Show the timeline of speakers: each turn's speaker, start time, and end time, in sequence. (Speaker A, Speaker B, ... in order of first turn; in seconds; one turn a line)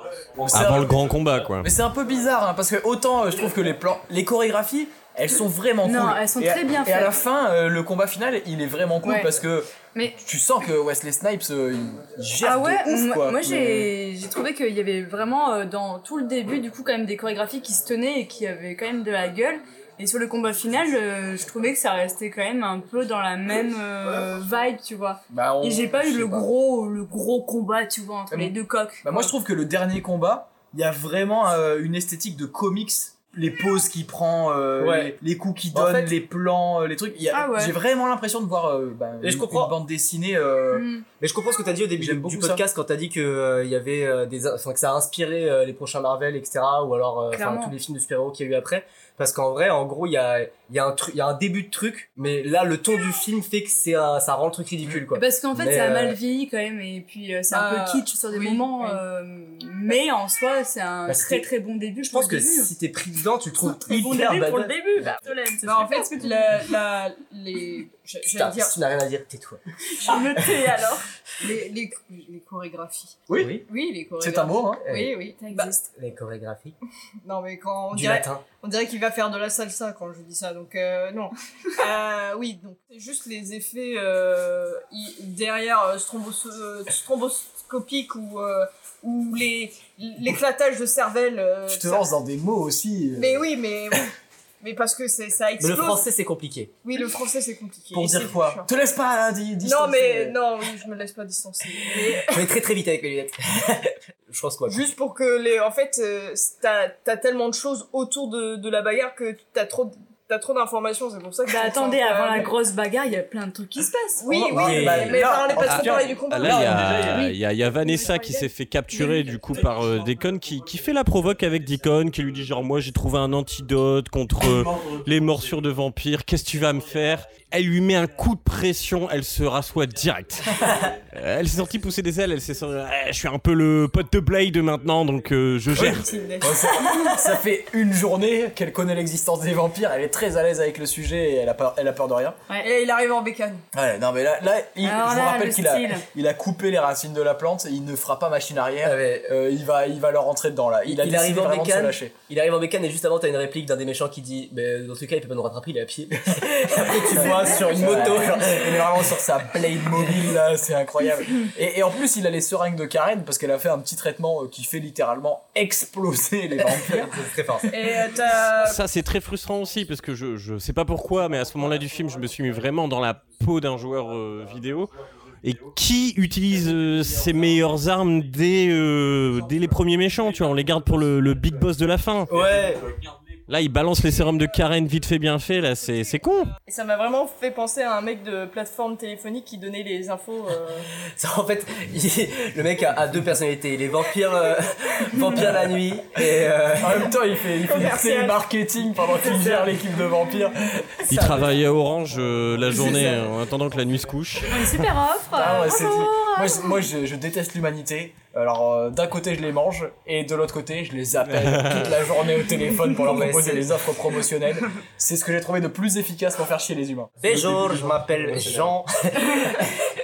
Speaker A: 0.4-13.9
Speaker B: 0.5-1.7
Speaker C: 5.8-7.1
Speaker C: 9.0-9.3
Speaker C: 12.4-29.3
Speaker A: 25.3-26.5
Speaker A: 28.3-40.9
Speaker D: 34.8-35.1
Speaker D: 35.7-36.1
Speaker C: 37.3-37.7
Speaker D: 39.2-39.7
Speaker C: 40.7-41.0
Speaker D: 41.2-56.2
Speaker A: 42.0-42.6
Speaker C: 47.3-47.7
Speaker C: 55.1-62.7
Speaker E: 57.5-59.0
Speaker D: 61.1-61.5
Speaker D: 62.0-65.2
Speaker C: 63.7-66.5
Speaker E: 65.6-68.8
Speaker D: 68.2-69.6
Speaker C: 69.9-71.0
Speaker E: 71.4-75.8
Speaker A: 73.3-73.6
Speaker D: 73.3-73.6
Speaker A: 74.2-74.8
Speaker D: 74.8-75.2
Speaker C: 75.3-75.8
Speaker D: 75.9-76.8
Speaker E: 77.2-92.1
Speaker D: 77.9-78.4
Speaker A: 91.7-93.5
Speaker E: 93.1-96.0
Speaker D: 95.6-96.7
Speaker E: 96.8-98.7
Speaker A: 97.9-100.4
Speaker E: 99.6-102.5
Speaker D: 102.2-104.8
Speaker E: 104.7-112.5
Speaker C: 111.5-114.4
Speaker E: 114.2-116.7
Speaker D: 114.5-115.2
Speaker A: 114.5-117.3
Speaker B: 115.6-136.1
Speaker C: 117.0-119.4
Speaker A: 135.7-142.4
Speaker E: 135.8-136.7
Speaker E: 142.6-143.6
Speaker A: 143.7-152.1
Speaker C: 144.8-146.0
Speaker D: 148.8-149.3
Speaker D: 150.8-159.1
Speaker A: 156.3-167.2
Speaker D: 166.7-167.8
Speaker E: 167.7-168.8
Speaker B: 168.5-182.3
Speaker D: 182.3-182.9
Speaker B: 183.5-186.5
Speaker E: 186.7-190.9
Speaker D: 191.1-197.1
Speaker A: 196.8-201.4
Speaker E: 197.6-198.4
Speaker E: 199.2-199.7
Speaker B: 201.1-204.8
Speaker E: 202.7-203.3
Speaker C: 204.5-206.8
Speaker A: 205.3-217.1
Speaker B: 211.3-211.8
Speaker D: 212.9-213.7
Speaker D: 217.2-219.7